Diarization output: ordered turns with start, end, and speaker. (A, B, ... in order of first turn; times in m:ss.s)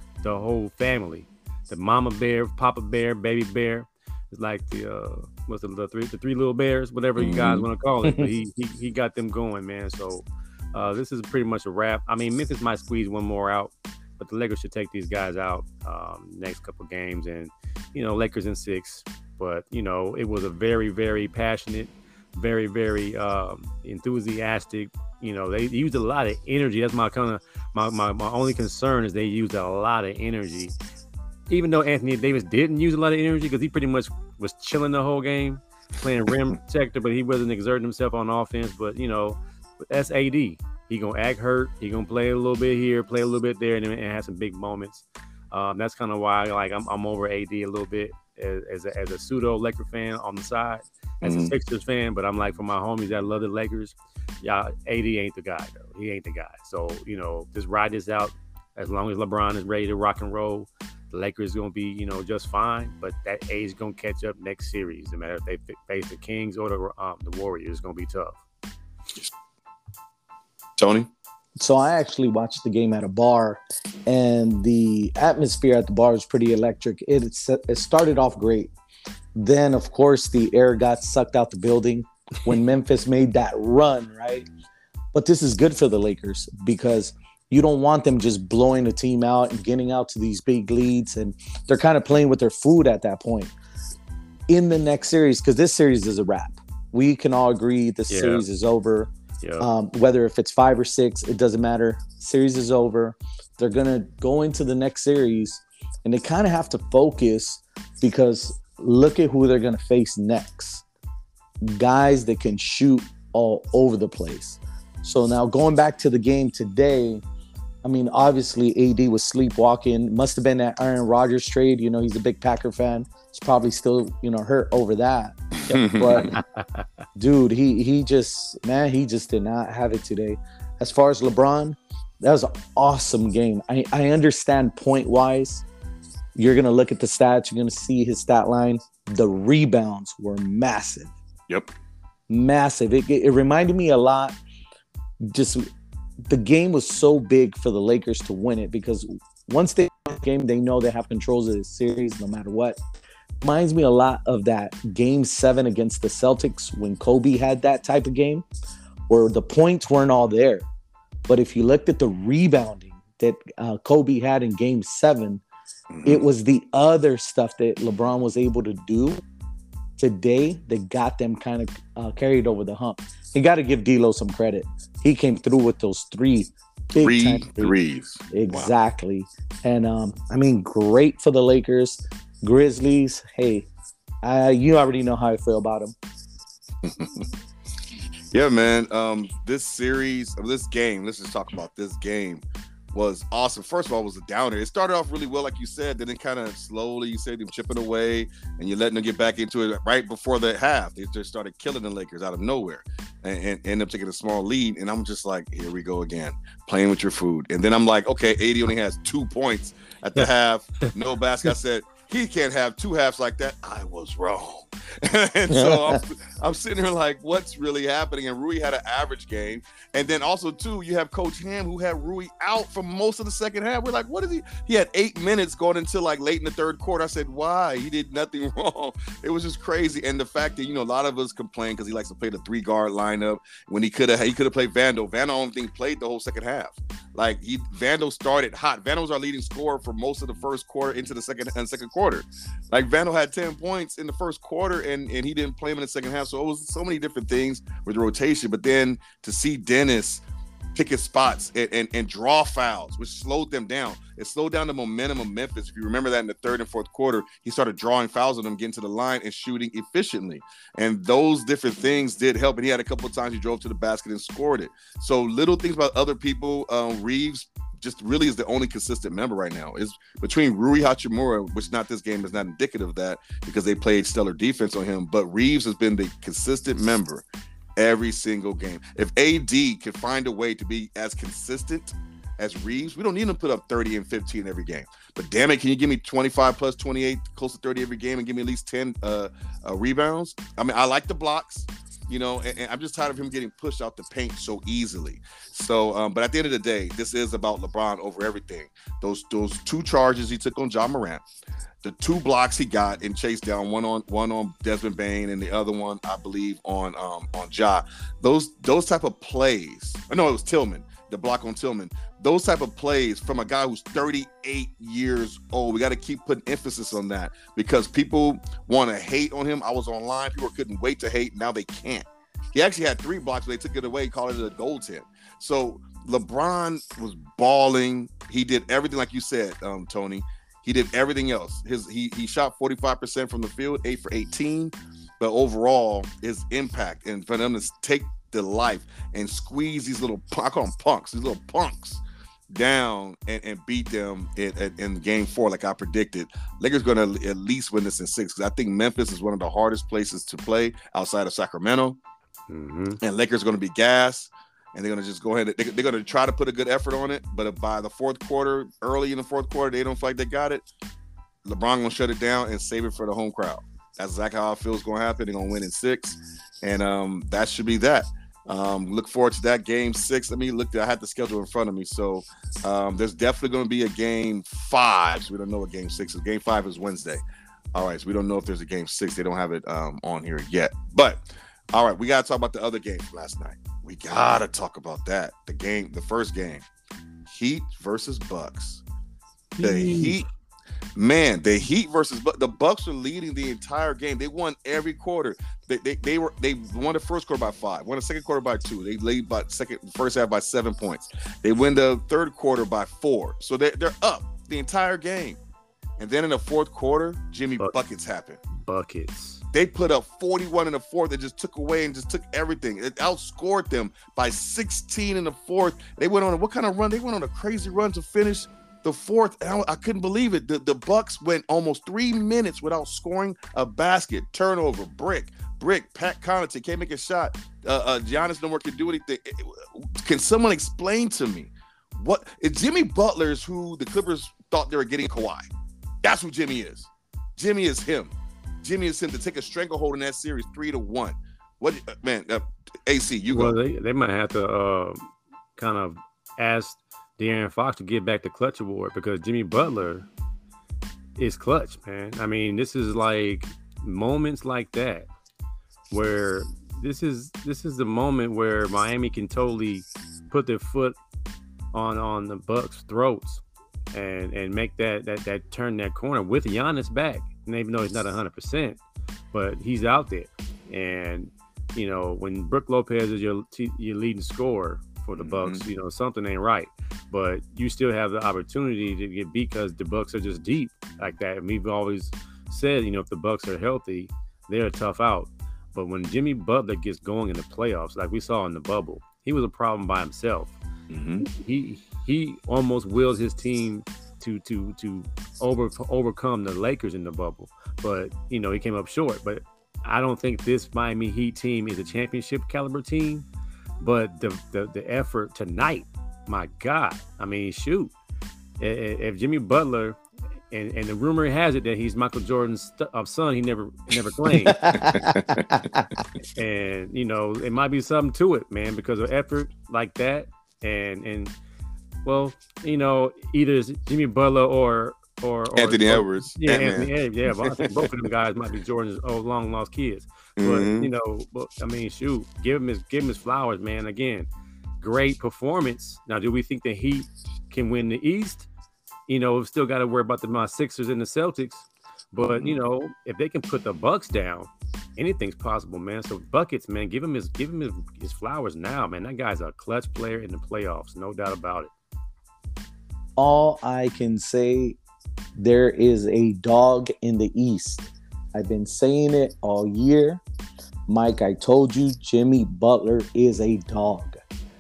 0:00.2-0:30.7 A
0:07.2-0:07.7 B
0:31.5-1:08.4 A
0:51.2-0:51.5 B
1:10.8-1:11.1 B
1:11.6-1:18.7 C
1:19.4-1:24.5 C
1:25.1-1:33.5 C
1:34.5-1:50.8 C
1:38.1-1:38.4 A
1:39.4-1:39.7 A
1:51.6-1:57.2 C
1:57.8-2:06.3 C
2:05.7-2:06.4 B
2:06.2-2:06.8 A
2:07.2-2:15.6 C
2:16.4-2:21.1 C
2:22.3-2:24.4 C
2:25.2-2:25.7 C
2:26.3-2:32.8 C
2:33.4-2:38.4 C
2:39.1-2:40.6 C
2:41.3-2:45.4 C
2:45.9-2:46.3 B
2:46.0-2:49.2 C
2:50.0-2:57.8 C
2:57.0-2:58.7 B
2:58.3-3:03.7 C
3:04.2-3:05.9 C
3:06.8-3:07.2 B
3:08.3-4:10.2 B
3:35.5-3:36.0 C
4:10.7-5:01.2 B
5:01.8-5:52.0 B
5:52.5-5:53.0 A
5:53.0-6:00.6 B
6:01.4-6:17.2 B
6:17.7-6:26.6 B
6:27.2-6:28.8 B
6:29.6-6:30.2 A
6:29.6-6:30.2 B
6:30.9-6:45.4 B
6:46.0-6:48.4 B
6:48.6-6:49.4 A
6:49.5-7:15.5 B
7:16.0-7:23.6 B
7:23.3-7:30.1 A
7:31.2-7:35.1 A
7:35.9-7:41.0 A
7:41.7-7:48.8 A
7:49.3-8:10.6 A
7:55.2-7:55.6 B
8:10.9-8:11.2 B
8:11.2-8:23.2 A
8:23.8-8:27.9 A
8:28.6-8:30.0 A
8:30.5-8:34.7 A
8:34.5-8:36.0 C
8:34.7-8:35.7 B
8:36.3-8:41.3 A
8:42.0-8:54.3 A
8:45.6-8:47.9 B
8:50.4-8:50.9 B
8:54.8-8:58.5 A
8:59.1-9:11.7 A
9:02.2-9:02.6 B
9:13.2-9:14.8 C
9:15.4-9:20.2 C
9:20.9-9:24.2 C